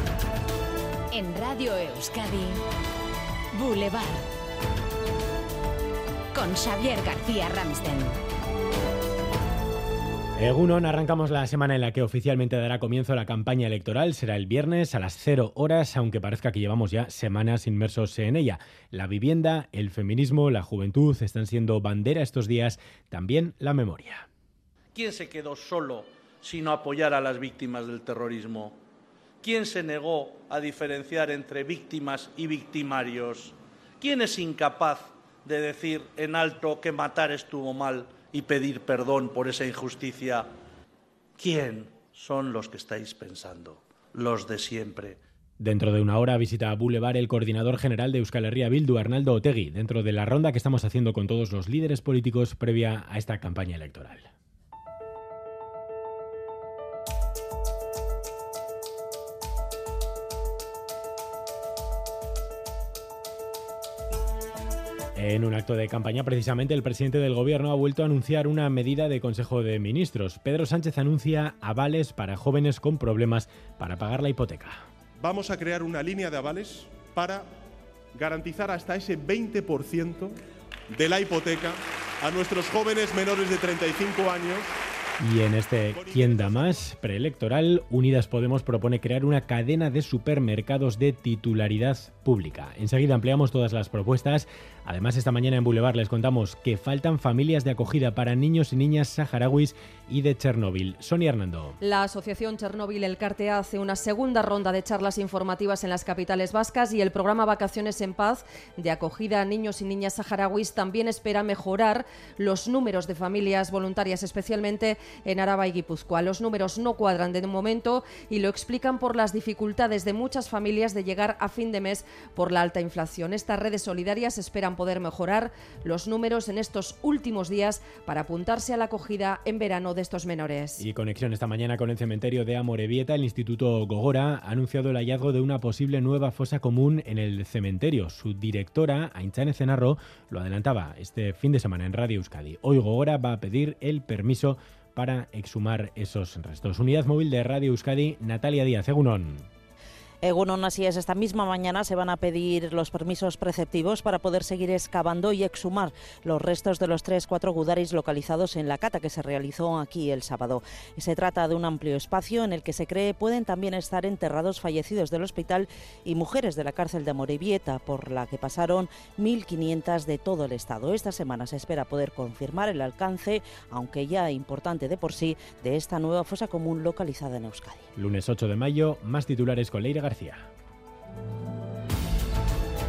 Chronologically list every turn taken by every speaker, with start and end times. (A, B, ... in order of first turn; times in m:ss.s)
0:01.1-0:02.6 A
0:03.5-0:04.2 A
0:06.3-0:08.2 A
0:10.4-0:24.3 B
0:25.0-0:28.8 C
0:29.4-0:40.5 C
0:41.4-0:45.2 C
0:45.6-0:54.3 B
1:05.2-1:14.8 B
1:15.2-1:17.4 D
1:18.2-1:20.3 D
1:20.9-1:24.7 D
1:25.2-1:41.8 B
1:25.9-1:26.9 D
1:41.8-2:10.8 E
2:10.8-2:29.5 B
2:30.2-2:57.9 F
2:58.0-3:00.5 B